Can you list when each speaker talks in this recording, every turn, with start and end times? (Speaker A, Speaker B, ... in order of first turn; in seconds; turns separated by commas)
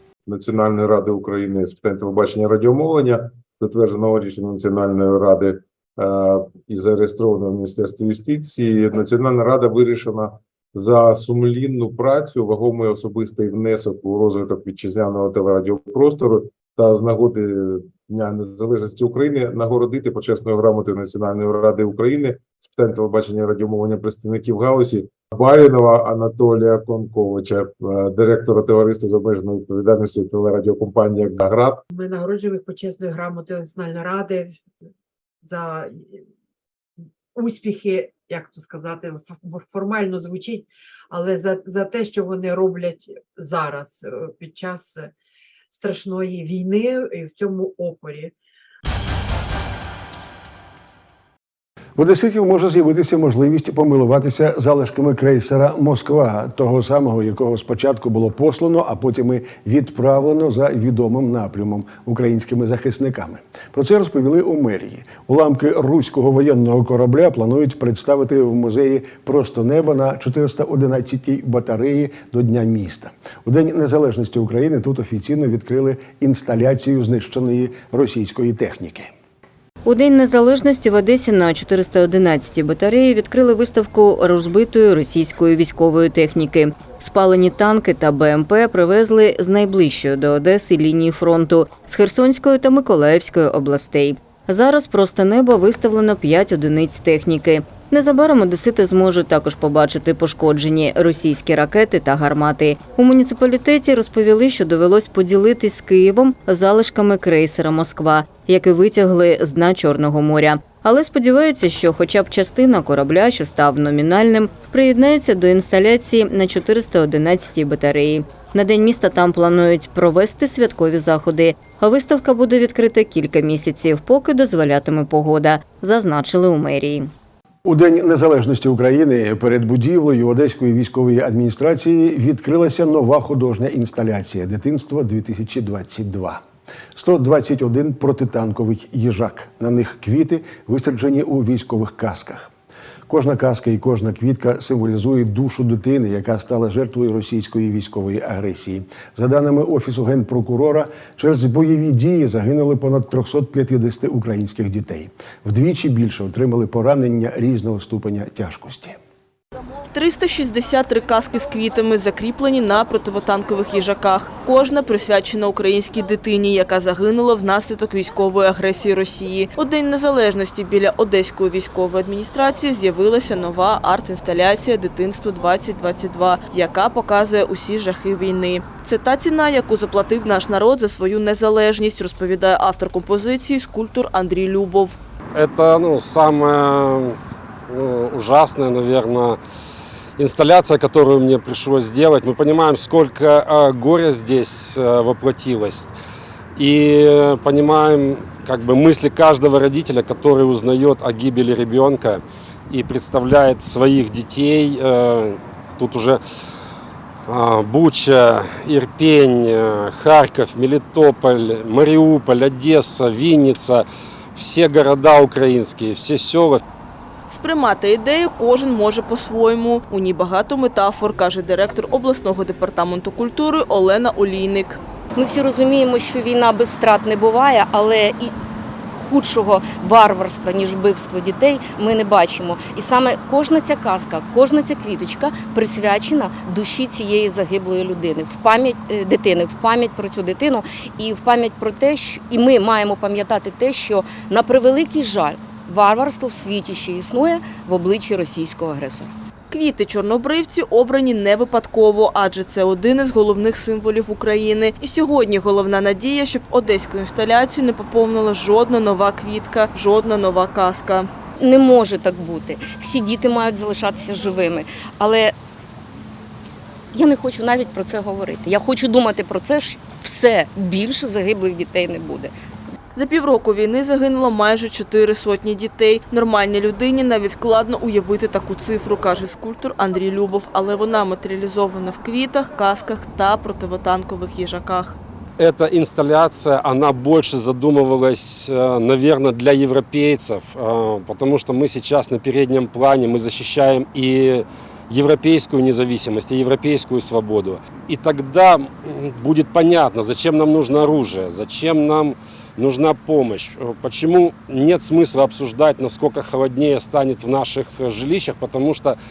Speaker A: 0.2-31.8, Speaker B: 31.9-34.6, Speaker B: 35.4-36.2, Speaker B: 37.3-45.1, Speaker B: 45.7-48.3, Speaker C: 52.0-79.1, Speaker D: 79.8-127.1, Speaker C: 127.6-136.4, Speaker C: 136.9-142.5, Speaker C: 143.1-159.0, Speaker E: 159.9-185.0, Speaker F: 185.3-187.2, Speaker F: 187.7-189.4, Speaker F: 190.2-195.9, Speaker F: 196.6-206.2, Speaker F: 207.3-216.6, Speaker E: 217.3-224.8, Speaker G: 225.2-228.3, Speaker G: 229.0-249.1, Speaker E: 249.5-261.1, Speaker G: 261.4-265.3, Speaker G: 266.9-272.3, Speaker E: 272.9-285.0, Speaker F: 285.4-309.0